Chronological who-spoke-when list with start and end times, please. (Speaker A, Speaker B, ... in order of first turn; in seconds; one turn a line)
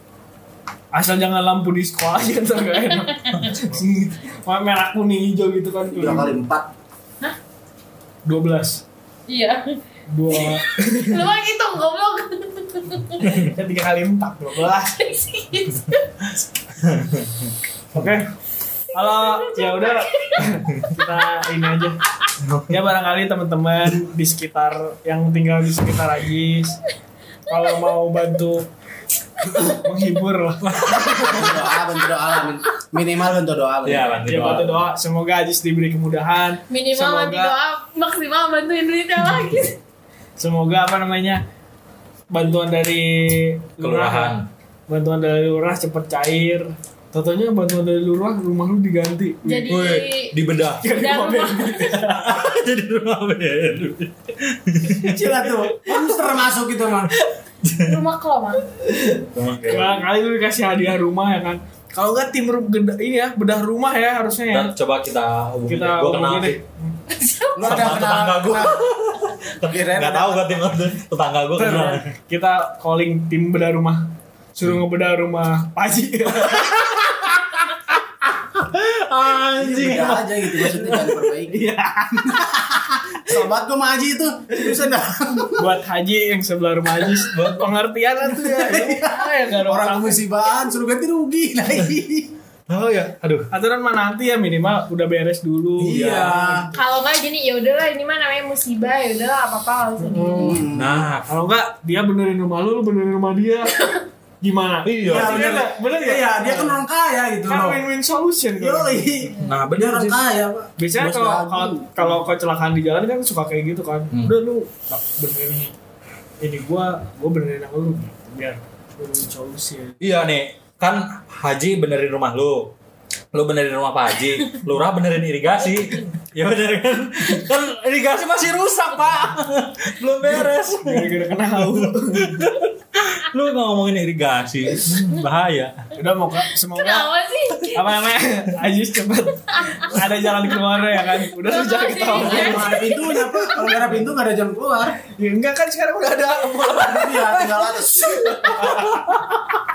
Speaker A: 0.9-6.4
Speaker B: 2.9-3.5
Speaker C: 5.9-6.7
Speaker A: 8.3-8.8
Speaker B: 9.3-9.8
Speaker A: 10.1-11.3
Speaker B: 10.3-13.4
Speaker A: 13.2-15.0
Speaker B: 14.9-16.1
Speaker D: 16.8-18.0
Speaker A: 17.9-18.3
Speaker A: 18.9-22.0
Speaker B: 19.0-20.5
Speaker D: 22.4-22.8
Speaker A: 22.7-26.8
Speaker A: 27.5-28.7
Speaker A: 29.7-31.7
Speaker C: 31.1-34.6
Speaker D: 33.8-34.9
Speaker A: 34.2-37.5
Speaker B: 36.7-39.8
Speaker A: 40.4-41.4
Speaker A: 42.3-44.4
Speaker D: 43.8-44.5
Speaker A: 44.9-49.9
Speaker B: 49.4-50.4
Speaker D: 49.7-50.8
Speaker A: 50.8-52.4
Speaker B: 50.9-52.0
Speaker D: 52.0-55.2
Speaker A: 54.9-56.2
Speaker C: 55.1-57.1
Speaker D: 57.6-58.0
Speaker B: 57.8-58.6
Speaker A: 58.8-64.8
Speaker D: 59.3-60.0
Speaker D: 64.5-66.6
Speaker A: 65.7-67.0
Speaker B: 67.2-68.0
Speaker C: 67.5-68.8
Speaker D: 67.6-72.1
Speaker C: 69.6-70.6
Speaker A: 71.6-76.9
Speaker D: 76.5-77.0
Speaker D: 78.5-80.5
Speaker C: 79.6-81.6
Speaker A: 80.9-82.6
Speaker C: 82.2-85.7
Speaker A: 85.6-90.2
Speaker D: 87.3-87.7
Speaker C: 88.3-92.3
Speaker D: 92.7-93.5
Speaker A: 93.5-96.8
Speaker D: 95.8-96.4
Speaker C: 95.8-96.7
Speaker B: 96.7-100.6
Speaker A: 100.0-100.6
Speaker C: 100.4-101.1
Speaker D: 100.7-101.3
Speaker A: 101.3-103.8
Speaker A: 104.4-106.8
Speaker D: 104.8-105.6
Speaker C: 105.0-107.8
Speaker A: 107.5-109.3
Speaker C: 108.6-112.1
Speaker D: 109.4-110.2
Speaker A: 110.8-115.7
Speaker A: 116.4-120.0
Speaker D: 120.0-122.7
Speaker D: 123.3-135.8
Speaker A: 130.8-132.5
Speaker A: 135.9-137.1
Speaker B: 136.7-138.1
Speaker A: 137.7-142.9
Speaker B: 139.5-140.4
Speaker B: 141.3-143.6
Speaker C: 142.1-145.0
Speaker A: 143.7-144.1
Speaker A: 145.1-149.6
Speaker C: 146.7-148.8
Speaker D: 148.8-149.1